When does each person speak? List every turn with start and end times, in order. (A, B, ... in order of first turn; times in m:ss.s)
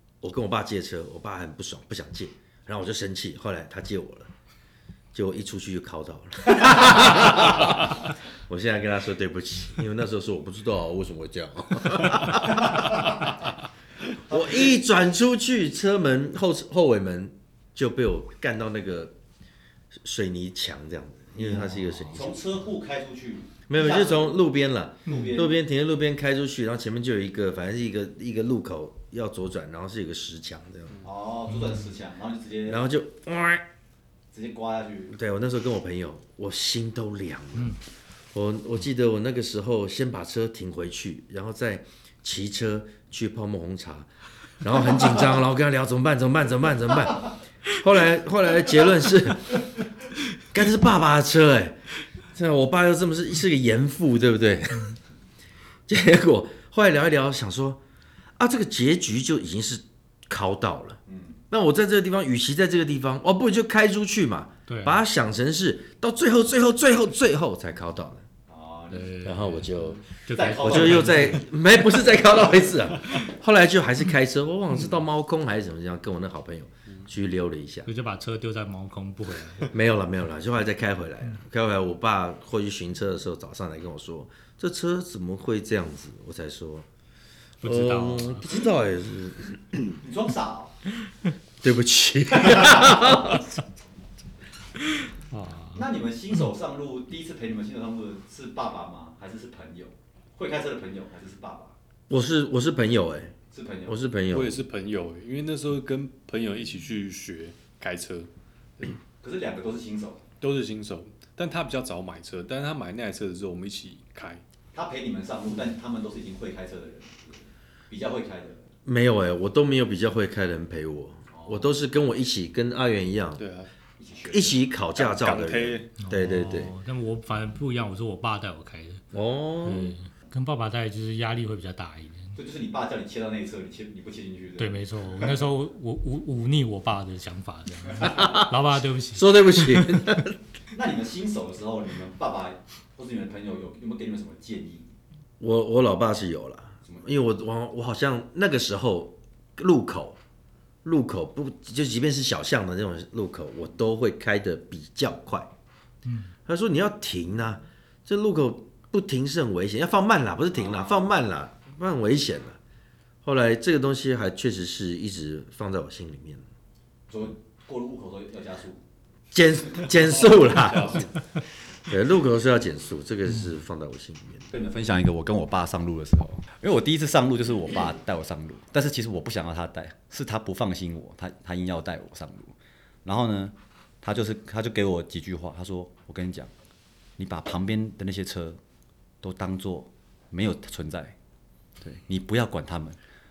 0:00.2-0:04.3 A
0:05.1-0:13.2 A
0:14.3-0:19.2 A
0:14.3-0:14.8 B
0:19.9-0:22.4 A
0:21.4-0:24.4 B
0:23.7-0:31.0 A
0:25.1-0:25.6 B
0:25.1-0:25.4 C
0:31.0-0:32.8 B
0:32.7-0:33.7 A
0:34.3-0:35.2 B
0:35.1-0:37.8 A
0:38.3-0:44.1 A
0:44.6-0:49.8 A
0:50.5-0:51.8 A
0:52.3-0:55.0 A
0:55.9-0:57.8 A
0:58.4-1:01.0 A
1:01.1-1:01.4 B
1:01.5-1:08.2 A
1:04.7-1:05.0 C
1:08.5-1:09.2 B
1:08.9-1:09.7 C
1:09.2-1:10.0 A
1:10.3-1:11.5 C
1:10.3-1:11.4 B
1:10.6-1:17.9 A
1:17.9-1:19.7 C
1:19.7-1:26.9 A
1:27.6-1:28.5 C
1:27.6-1:30.0 A
1:30.0-1:30.8 B
1:31.6-1:33.4 A
1:35.0-1:35.8 C
1:35.7-1:41.8 B
1:42.1-1:43.4 A
1:43.5-1:44.0 B
1:43.9-1:44.6 A
1:44.3-1:48.9 D
1:49.2-1:50.3 B
1:50.4-1:54.4 D
1:54.7-1:58.7 B
1:58.9-2:03.4 A
2:01.3-2:01.6 B
2:03.4-2:03.7 D
2:04.0-2:04.6 B
2:04.3-2:06.7 A
2:05.0-2:05.9 D
2:06.0-2:09.0 C
2:09.1-2:10.0 A
2:09.6-2:12.4 C
2:12.4-2:15.3 B
2:14.6-2:20.3 C
2:18.0-2:20.4 A
2:20.7-2:24.9 B
2:25.4-2:30.2 A
2:30.8-2:35.5 A
2:36.0-2:36.3 C
2:36.5-2:42.6 A
2:40.5-2:41.0 B
2:43.2-2:46.4 A
2:47.1-2:48.8 B
2:49.3-2:51.1 A
2:50.6-2:51.0 D
2:51.9-2:54.5 A
2:54.5-3:02.5 E
3:03.0-3:06.5 E
3:07.2-3:08.6 E
3:09.2-3:11.2 E
3:11.8-3:13.0 E